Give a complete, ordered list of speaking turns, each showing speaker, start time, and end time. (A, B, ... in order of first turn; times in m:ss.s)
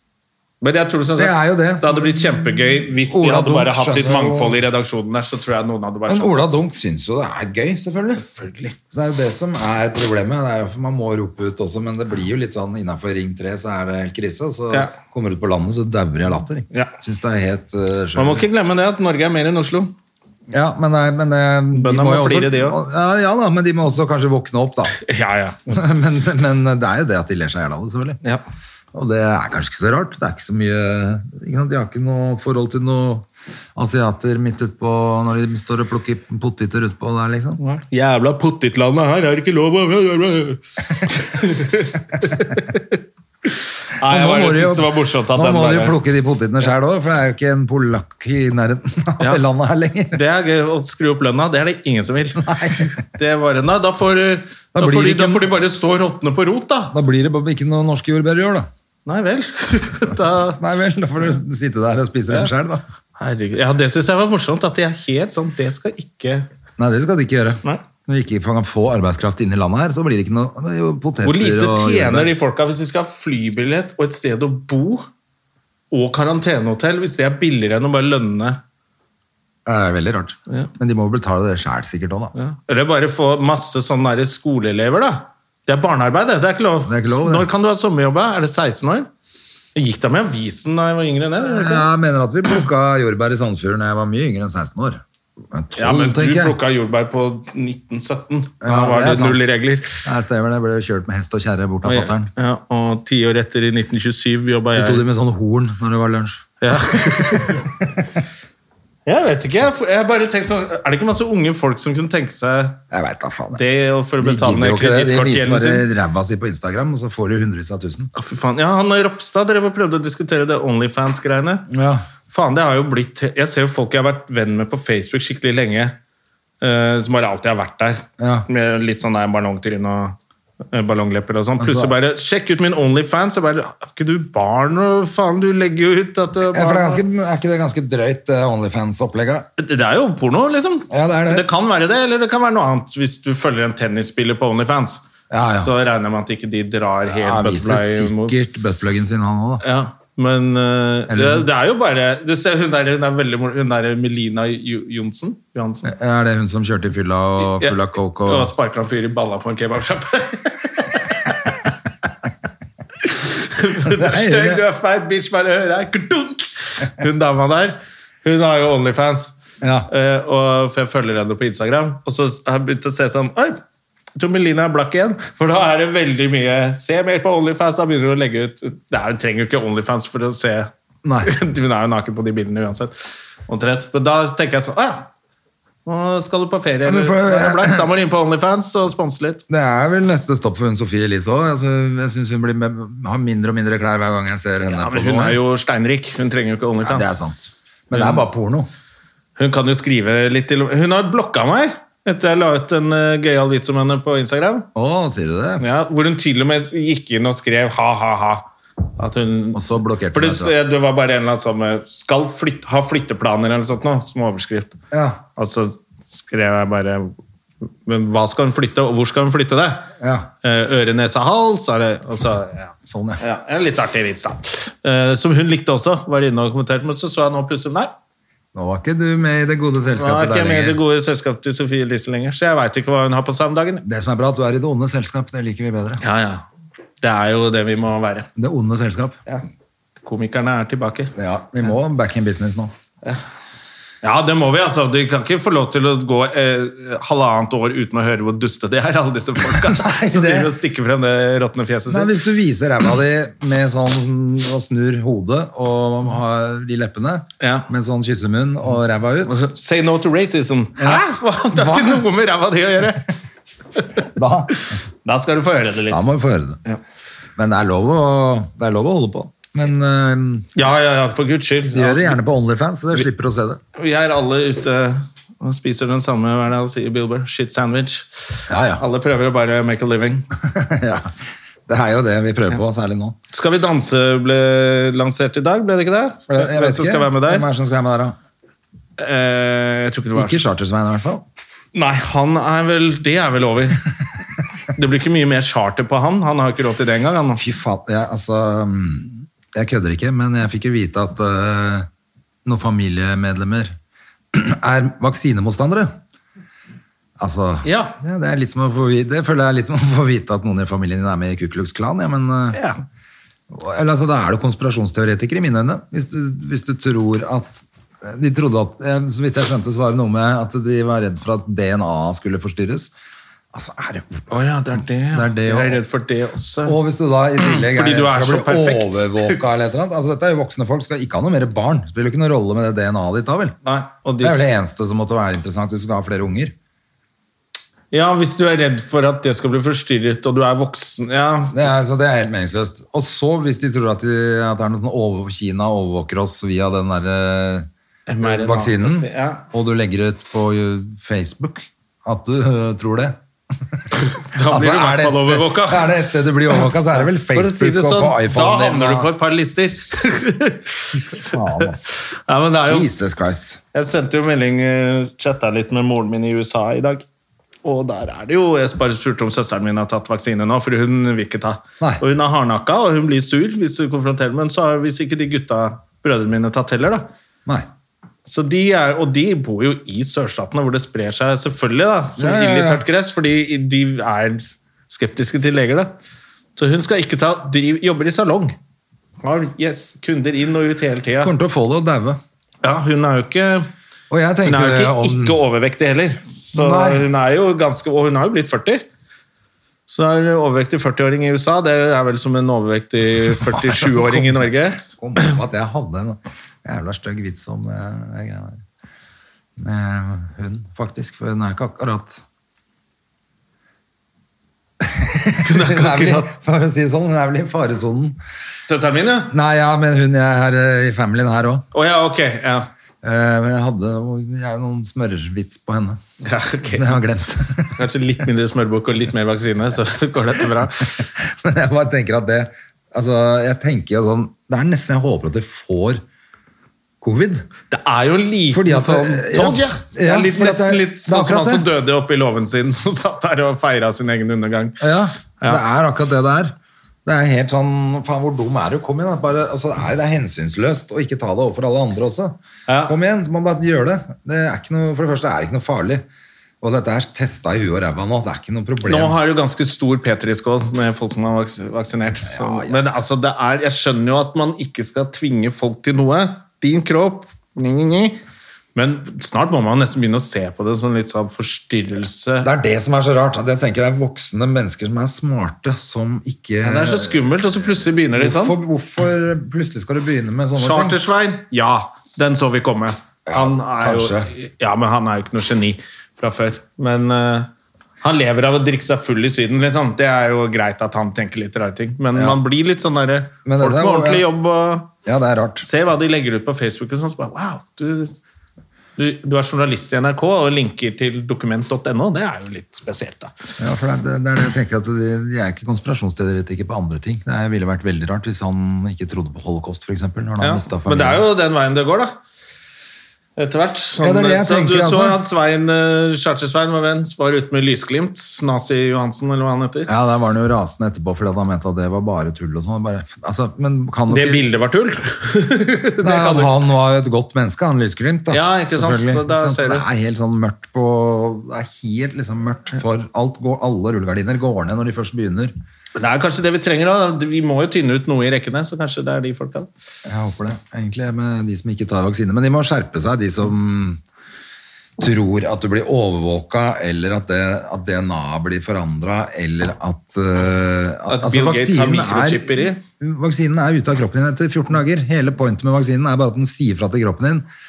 0:00.6-0:06.4 A
0:01.2-0:04.6 B
0:06.1-0:08.2 B
0:08.2-0:08.8 A
0:08.9-0:18.4 B
0:18.2-0:19.9 A
0:20.5-0:25.0 B
0:21.7-0:22.8 A
0:25.0-0:25.8 A
0:25.7-0:28.2 B
0:28.9-0:37.6 B
0:37.6-0:43.0 A
0:44.0-0:46.0 A
0:44.0-0:50.2 B
0:50.1-0:56.9 A
0:52.4-0:53.0 B
0:54.7-0:55.5 B
0:56.9-0:58.7 B
0:59.0-1:00.6 A
1:00.6-1:02.8 B
1:03.2-1:06.5 A
1:06.8-1:12.3 B
1:11.2-1:15.1 A
1:15.9-1:18.6 A
1:19.6-1:22.3 B
1:22.3-1:29.1 A
1:26.8-1:27.5 B
1:29.7-1:31.9 A
1:31.4-1:36.6 B
1:35.8-1:40.0 A
1:38.6-1:39.5 B
1:40.0-1:42.3 B
1:41.8-1:45.0 A
1:44.7-1:47.8 B
1:46.6-1:47.7 A
1:49.0-1:52.8 A
1:52.9-1:53.6 B
1:53.5-1:55.8 A
1:54.2-1:58.1 B
1:58.1-2:01.7 A
2:01.7-2:02.1 B
2:02.3-2:06.0 A
2:06.6-2:10.2 A
2:08.2-2:08.5 B
2:10.7-2:17.0 A
2:11.6-2:11.9 B
2:16.5-2:19.5 B
2:19.6-2:28.3 A
2:20.9-2:21.5 B
2:25.3-2:25.7 B
2:27.1-2:29.6 B
2:29.6-2:35.9 A
2:31.1-2:31.5 B
2:35.8-2:38.5 B
2:37.4-2:41.5 A
2:43.0-2:49.4 A
2:43.8-2:44.6 B
2:49.6-2:49.9 B
2:49.9-2:53.6 A
2:54.2-3:00.7 A
3:01.0-3:01.3 B
3:01.2-3:02.9 A
3:03.5-3:05.1 A
3:05.8-3:09.4 A
3:06.8-3:07.8 B
3:09.5-3:15.4 B
3:14.7-3:17.2 A
3:16.8-3:18.7 B
3:17.9-3:18.2 A
3:19.4-3:24.7 A
3:24.7-3:25.6 B
3:25.6-3:34.8 A
3:29.5-3:30.5 B
3:34.9-3:35.2 B
3:35.4-3:37.2 A
3:37.8-3:39.9 A
3:40.0-3:40.3 B
3:40.4-3:47.9 A
3:42.8-3:43.2 B
3:48.5-3:50.8 B
3:50.0-3:53.8 A
3:53.8-3:56.0 B
3:56.0-3:56.4 A
3:57.0-3:58.3 A
3:58.4-3:59.2 B
4:00.0-4:01.1 A
4:01.2-4:02.7 B
4:04.0-4:12.1 A
4:09.4-4:10.5 B
4:11.9-4:19.4 B
4:17.4-4:17.7 A
4:19.2-4:23.0 A
4:20.8-4:22.0 B
4:24.0-4:24.6 B
4:24.6-4:26.1 A
4:25.9-4:26.6 B
4:27.4-4:30.5 B
4:30.6-4:32.2 A
4:31.7-4:33.6 B
4:33.8-4:40.2 A
4:38.5-4:38.8 B
4:40.4-4:41.1 B
4:41.7-4:43.2 B
4:43.3-4:47.5 A
4:46.3-4:48.2 B
4:49.0-4:50.4 A
4:50.1-4:51.2 B
4:51.7-4:53.8 A
4:54.7-4:57.4 A
4:57.4-5:01.9 B
5:02.4-5:03.7 B
5:04.3-5:05.9 B
5:07.2-5:12.6 B
5:07.6-5:08.0 A
5:12.5-5:12.8 A
5:13.5-5:22.9 B
5:23.5-5:24.3 B
5:24.3-5:26.8 A
5:25.1-5:25.8 B
5:26.6-5:33.6 B
5:27.4-5:29.4 A
5:33.6-5:34.4 A
5:34.2-5:36.5 B
5:37.9-5:41.6 A
5:41.5-5:47.7 B
5:48.1-5:49.4 A
5:48.2-5:59.1 B
5:53.9-5:55.9 A
5:56.6-6:02.9 A
6:01.2-6:01.9 B
6:02.6-6:03.6 B
6:03.7-6:07.0 A
6:07.6-6:17.1 A
6:18.2-6:25.9 A
6:22.2-6:22.8 B
6:26.6-6:28.6 A
6:29.2-6:31.3 A
6:31.2-6:32.2 B
6:32.6-6:33.7 A
6:34.1-6:35.4 B
6:34.4-6:38.8 A
6:36.5-6:37.0 B
6:39.9-6:45.3 A
6:43.4-6:48.6 B
6:49.6-6:52.2 B
6:54.8-6:58.2 B
6:55.4-6:56.3 A
6:58.6-6:59.3 A
6:59.3-7:01.6 B
7:01.7-7:02.7 A
7:03.0-7:06.0 B
7:06.2-7:06.9 A
7:06.7-7:07.9 B
7:07.7-7:11.1 A
7:11.0-7:16.0 B
7:17.0-7:17.5 B
7:17.7-7:24.8 A
7:18.5-7:21.7 B
7:24.8-7:36.0 B
7:32.7-7:32.9 A
7:36.6-7:39.1 B
7:38.8-7:48.2 A
7:42.2-7:42.8 B
7:48.7-7:52.5 A
7:52.4-7:57.4 B
7:56.6-7:58.6 A
7:58.2-8:01.0 B
8:00.6-8:07.5 A
8:03.3-8:04.3 B
8:08.0-8:14.9 A
8:12.1-8:12.4 B
8:13.4-8:14.3 B
8:15.0-8:15.7 B
8:15.6-8:18.2 A
8:19.0-8:23.3 A
8:23.6-8:31.2 B
8:30.4-8:32.1 A
8:33.4-8:39.9 A
8:34.0-8:35.2 B
8:39.9-8:44.4 B
8:44.1-8:46.5 A
8:46.0-8:55.5 B
8:48.3-8:49.8 A
8:55.9-8:59.7 A
9:00.0-9:04.0 B
9:05.0-9:17.4 B
9:11.1-9:12.8 A